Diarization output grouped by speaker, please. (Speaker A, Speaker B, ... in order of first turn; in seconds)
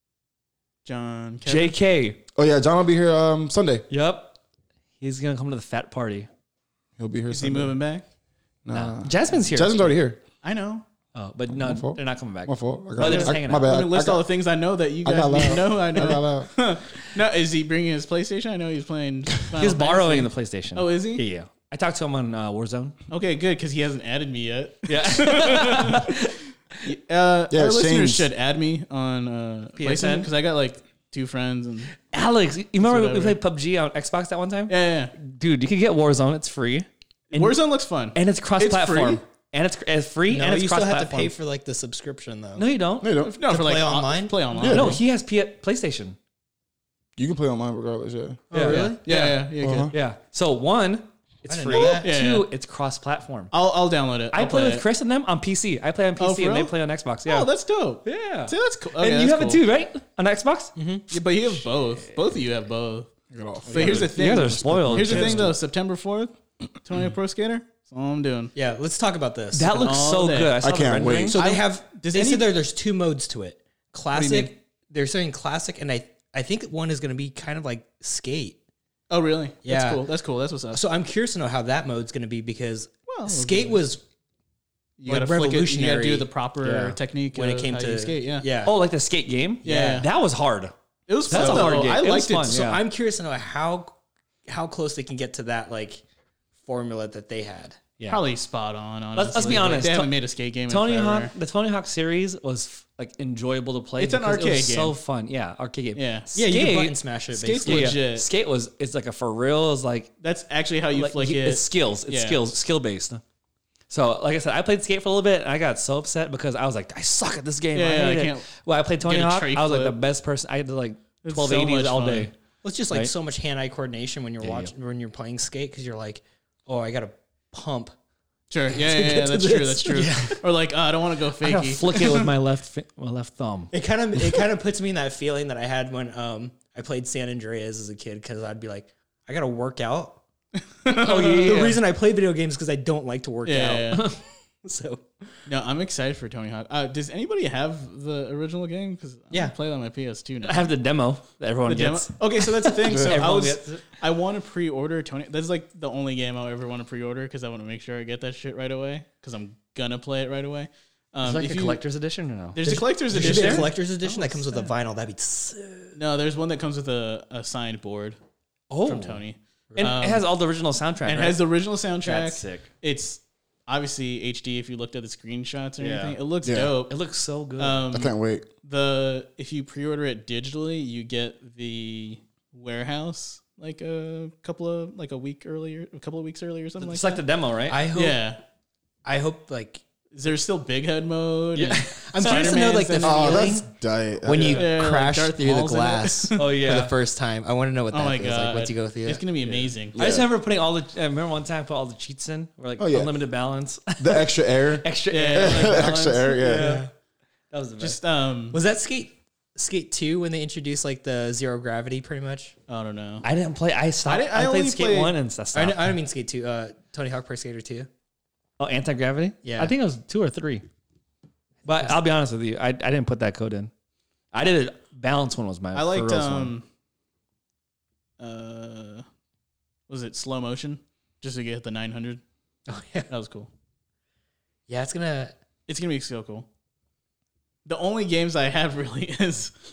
Speaker A: 0.8-1.8, 7.3-8.0, 10.4-10.8, 13.0-21.2, 23.1-26.2, 26.8-31.9, 32.8-33.4, 34.7-35.1, 37.3-39.2, 43.2-45.0, 48.7-49.9, 51.7-52.5, 53.5-54.9, 56.2-59.6, 61.1-63.1, 63.7-68.5, 69.8-70.6, 71.4-72.5, 74.1-74.5, 79.1-80.8, 83.1-83.8, 85.0-88.5, 89.6-90.1, 91.1-92.6, 98.1-101.3, 104.0-105.0, 105.9-106.3, 107.3-108.3, 110.2-112.6, 117.7-120.0, 121.2-122.3, 128.5-132.4, 140.8-141.8, 143.4-144.2, 145.5-150.7, 151.7-161.8, 162.5-164.7, 166.0-168.2, 168.8-170.3, 171.0-176.9, 177.6-187.2, 187.9-188.4, 190.1-193.5, 194.3-196.6, 197.9-200.0, 205.1-205.9, 207.8-208.6, 212.7-213.3, 214.1-215.2, 225.7-226.7, 228.2-229.1, 229.9-232.2, 233.1-233.5, 235.7-236.5, 237.7-239.5
Speaker B: 1.5-2.2, 3.9-4.4, 5.0-6.3, 8.7-9.9, 11.1-13.7, 19.6-23.0, 24.9-26.9, 29.8-30.3, 32.1-37.6, 38.1-41.3, 42.6-43.2, 44.6-46.2, 48.5-49.0, 49.9-53.5, 54.3-57.5, 58.0-60.7, 63.7-65.5, 69.5-71.5, 86.7-87.0, 88.6-90.7, 91.2-92.8, 98.0-98.2, 99.2-107.0, 107.7-110.1, 110.9-113.2, 113.9-122.3, 124.4-124.7, 129.9-130.4, 131.4-133.7, 140.9-141.8, 150.4-153.8, 161.2-163.7, 168.7-171.4, 172.0-172.7, 175.8-176.2, 176.9-177.8, 186.8-187.8, 191.6-192.6, 196.4-196.9, 200.0-206.9, 207.5-208.0, 213.2-216.0, 218.6-220.7, 221.7-223.7, 224.3-226.6
Speaker C: 2.4-3.9, 7.0-7.8, 8.7-10.2, 11.5-14.3, 15.0-16.5, 27.5-28.3, 43.0-43.4, 44.5-45.0, 47.2-48.4, 49.6-49.9, 63.3-65.6, 70.6-71.4, 176.4-176.8, 177.9-178.5, 193.0-194.7, 199.9-200.3, 202.8-203.2, 204.0-206.8
Speaker D: 40.3-42.7, 43.4-44.5, 48.5-49.4, 51.5-52.1, 60.8-61.1, 68.5-70.2, 71.3-78.6, 79.6-80.1, 80.7-84.0, 85.1-86.3, 87.3-88.8, 89.6-90.0, 91.3-91.9, 92.4-93.9, 94.5-96.0, 96.6-97.8, 106.3-108.0, 122.6-127.9, 128.7-130.1, 133.7-140.2, 140.9-145.1, 162.6-166.0, 187.7-188.3, 189.1-189.8, 191.9-193.7, 194.2-199.7, 206.4-206.9, 208.5-212.6, 215.5-217.9, 219.4-219.8, 221.7-221.9, 232.7-233.1, 234.7-235.4